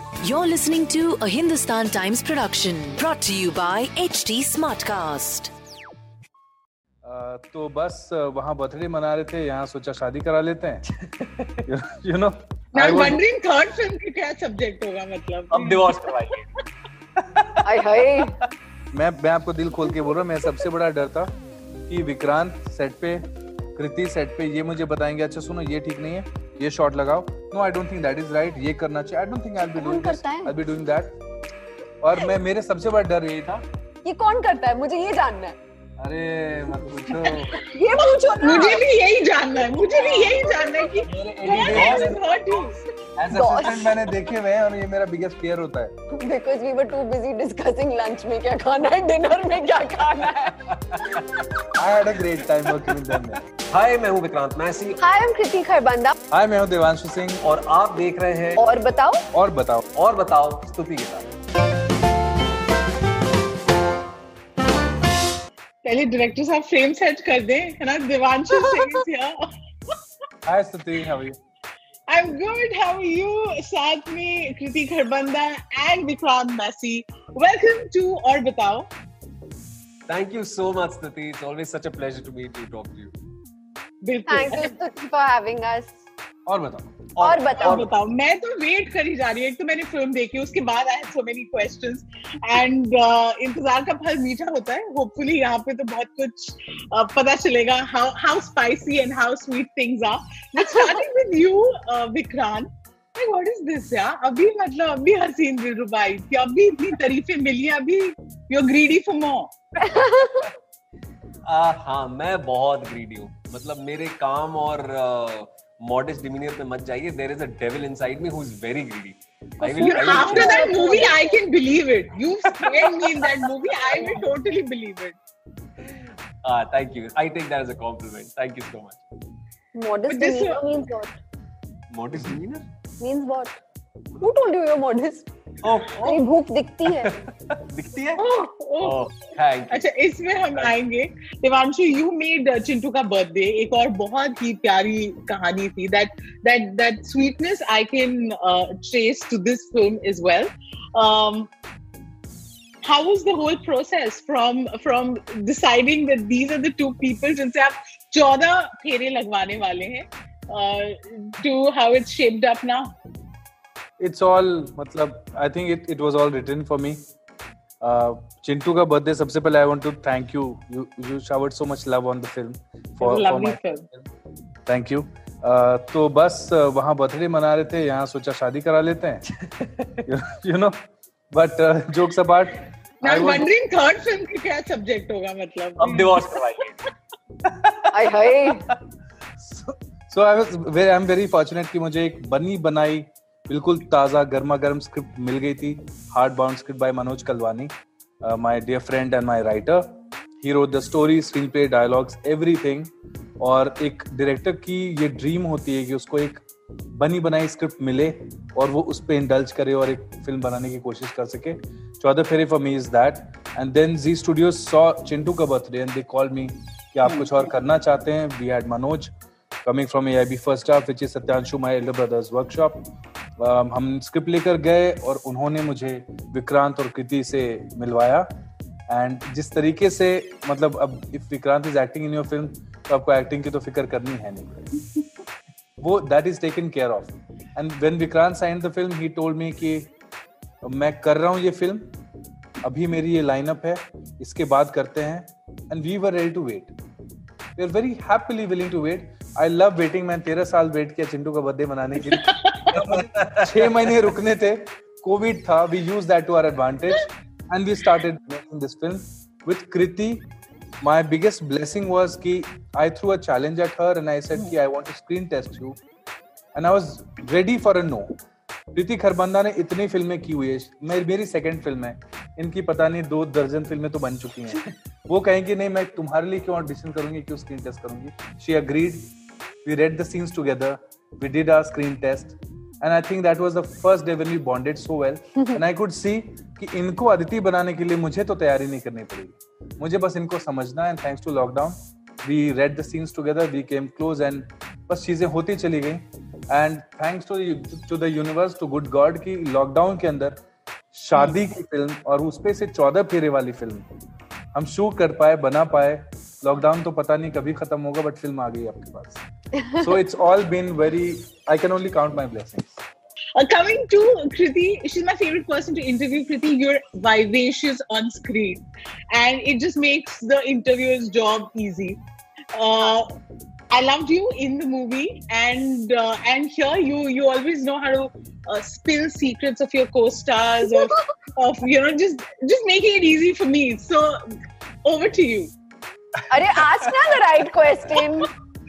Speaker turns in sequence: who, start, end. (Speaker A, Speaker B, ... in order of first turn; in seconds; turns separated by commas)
Speaker A: 0.2-5.5, Speaker B: 7.0-10.9, Speaker C: 11.0-11.6, Speaker B: 11.7-13.2, Speaker D: 12.7-16.1, Speaker C: 15.5-16.4, Speaker C: 17.3-17.6, Speaker E: 17.6-18.3, Speaker B: 18.9-21.3, Speaker B: 21.9-31.1, Speaker E: 29.7-30.5, Speaker B: 32.0-33.6, Speaker E: 34.0-35.6, Speaker B: 36.0-37.5, Speaker E: 37.3-38.8, Speaker D: 38.4-42.8, Speaker E: 39.8-40.9, Speaker B: 41.1-42.2, Speaker C: 41.7-42.2, Speaker B: 43.2-45.9, Speaker E: 43.3-43.9, Speaker E: 46.2-50.6, Speaker B: 51.8-53.4, Speaker C: 53.7-55.0, Speaker E: 55.0-56.1, Speaker B: 56.3-57.4, Speaker C: 57.4-58.6, Speaker E: 58.5-59.2, Speaker B: 59.3-59.9, Speaker C: 60.0-61.3, Speaker D: 65.8-69.4, Speaker B: 70.4-71.4, Speaker D: 72.1-78.9, Speaker C: 80.1-83.1, Speaker D: 84.0-84.7, Speaker E: 84.3-85.9, Speaker B: 86.5-87.0, Speaker C: 87.2-87.9, Speaker E: 87.2-87.8, Speaker D: 87.6-109.5, Speaker E: 100.6-101.0, Speaker E: 109.8-110.5, Speaker C: 111.5-120.7, Speaker E: 119.6-121.4, Speaker D: 119.8-125.2, Speaker C: 122.6-124.2, Speaker C: 125.9-129.0, Speaker E: 129.7-131.2, Speaker D: 130.1-130.6, Speaker C: 131.9-132.7, Speaker E: 133.0-133.6, Speaker E: 134.2-135.3, Speaker C: 135.6-136.2, Speaker E: 136.0-137.1, Speaker C: 136.9-138.2, Speaker D: 138.2-139.0, Speaker C: 138.8-139.9, Speaker D: 139.7-151.5, Speaker D: 152.8-162.9, Speaker B: 164.0-167.0, Speaker B: 167.8-174.1, Speaker D: 173.0-173.8, Speaker B: 174.7-179.3, Speaker C: 179.5-179.9, Speaker B: 180.1-180.7, Speaker B: 181.3-183.5, Speaker D: 183.0-186.4, Speaker C: 185.8-186.8, Speaker C: 187.6-187.9, Speaker E: 187.9-188.6, Speaker B: 189.4-199.9, Speaker B: 200.4-206.4, Speaker B: 206.9-219.1, Speaker D: 217.0-217.5, Speaker B: 219.6-228.3, Speaker B: 228.9-234.7, Speaker B: 235.8-239.9, Speaker B: 240.6-241.9, Speaker B: 242.6-246.7, Speaker B: 247.6-260.2, Speaker D: 252.1-252.6, Speaker C: 252.8-253.3, Speaker B: 260.8-265.8, Speaker B: 266.5-268.1, Speaker B: 268.7-279.1, Speaker B: 279.6-300.4, Speaker E: 285.4-285.6, Speaker B: 300.9-303.9, Speaker D: 301.1-301.4, Speaker B: 304.5-309.2, Speaker E: 309.6-309.9, Speaker B: 309.8-312.8, Speaker D: 313.4-322.0, Speaker D: 322.5-323.1, Speaker D: 323.7-334.3, Speaker D: 334.8-335.5, Speaker E: 336.3-338.3